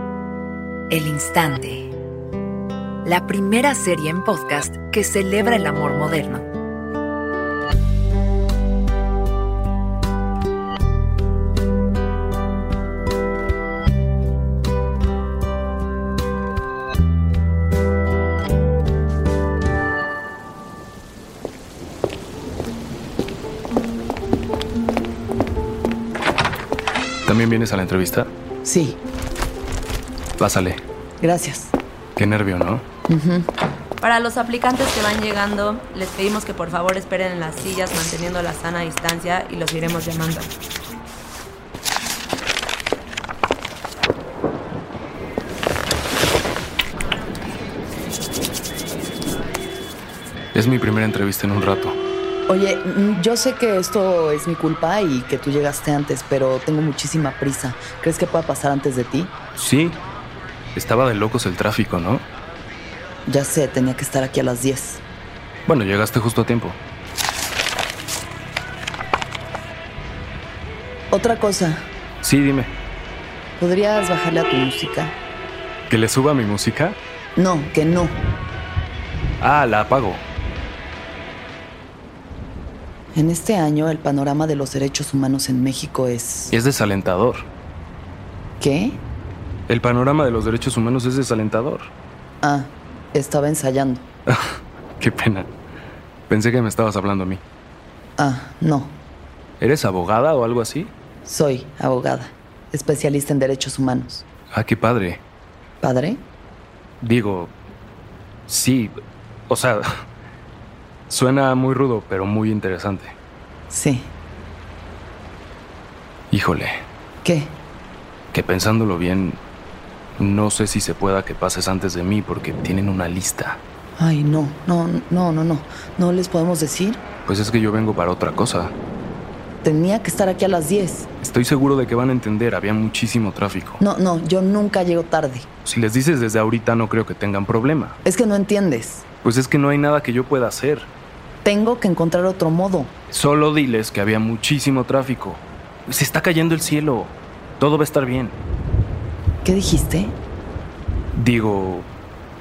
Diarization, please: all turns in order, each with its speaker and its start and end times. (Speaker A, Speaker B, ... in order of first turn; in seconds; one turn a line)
Speaker A: 0.9-1.9
Speaker A: 3.0-6.5
Speaker B: 27.2-28.3
Speaker C: 28.6-29.0
Speaker B: 30.4-30.8
Speaker C: 31.2-31.7
Speaker B: 32.2-32.8
Speaker C: 33.1-33.5
Speaker D: 34.0-40.5
Speaker B: 50.5-52.0
Speaker C: 52.5-59.3
Speaker B: 59.6-60.0
Speaker B: 60.8-62.2
Speaker C: 63.3-65.0
Speaker B: 65.7-66.8
Speaker C: 71.1-71.9
Speaker B: 72.2-72.7
Speaker C: 73.6-75.2
Speaker B: 75.9-77.0
Speaker C: 77.4-78.2
Speaker B: 79.4-80.2
Speaker C: 83.1-86.5
Speaker B: 86.5-87.5
Speaker C: 88.6-89.0
Speaker B: 89.7-91.9
Speaker C: 92.4-94.1
Speaker B: 95.0-95.5
Speaker B: 96.3-97.4
Speaker C: 98.2-99.0
Speaker B: 99.6-100.9
Speaker C: 101.2-104.2
Speaker B: 104.5-105.2
Speaker C: 105.8-106.2
Speaker B: 107.0-107.5
Speaker B: 108.5-108.9
Speaker B: 109.5-109.9
Speaker B: 111.1-113.1
Speaker C: 113.7-114.1
Speaker B: 116.3-116.8
Speaker C: 117.2-117.6
Speaker B: 118.3-119.4
Speaker B: 120.2-123.6
Speaker C: 124.0-127.0
Speaker B: 127.3-128.7
Speaker C: 129.6-131.1
Speaker B: 131.2-133.8
Speaker C: 133.8-135.5
Speaker B: 135.6-137.9
Speaker C: 138.1-139.0
Speaker B: 139.2-140.9
Speaker C: 141.4-142.9
Speaker B: 143.1-148.4
Speaker C: 149.4-150.2
Speaker B: 151.1-151.9